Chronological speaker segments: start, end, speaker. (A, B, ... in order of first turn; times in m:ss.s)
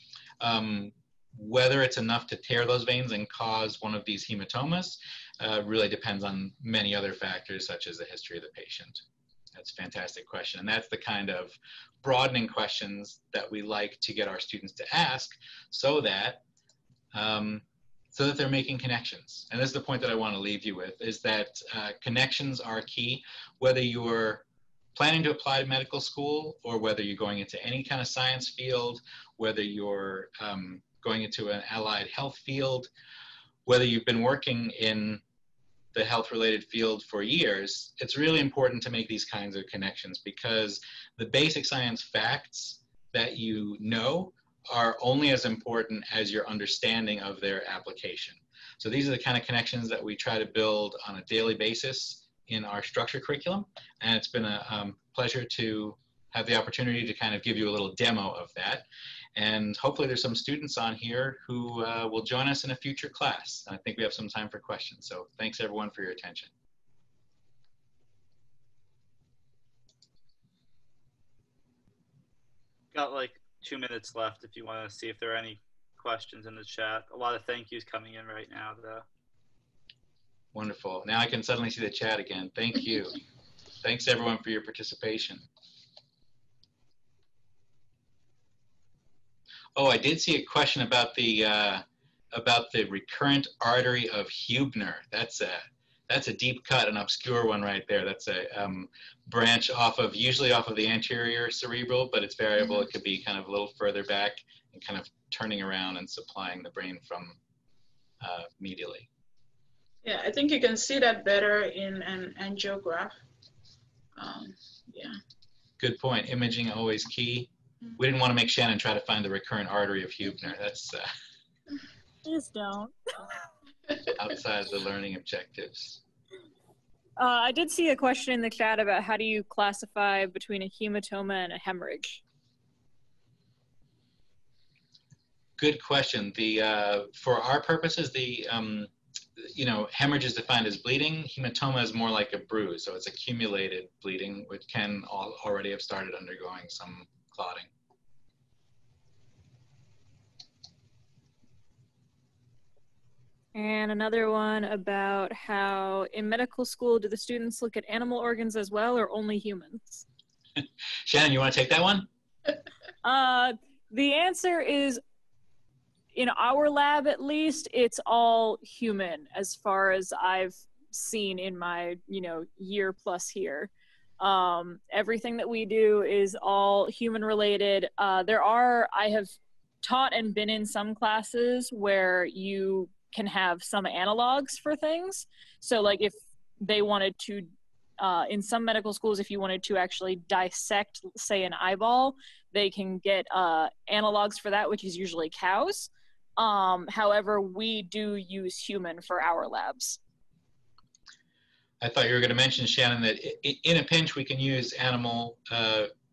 0:00.4-0:09.0 A
0:09.6-0:16.4 A
0:17.1-0:32.9 A
0:33.7-0:35.2 A
0:35.9-0:58.8 A
0:59.4-1:06.5 A
1:12.9-1:19.0 B
1:20.5-1:23.2 A
1:23.8-1:25.5 A
1:29.8-1:47.4 A
1:48.2-1:49.1 A
1:50.0-1:53.1 C
1:54.2-1:55.2 C
1:55.8-2:01.1 A
2:02.2-2:03.5 D
2:04.1-2:06.0 A
2:07.2-2:12.2 D
2:15.6-2:27.7 A
2:33.5-2:40.0 D
2:40.6-2:42.1 A
2:43.0-2:45.0 D
2:46.1-3:07.5 D
3:08.0-3:20.0 D
3:21.8-3:25.9 A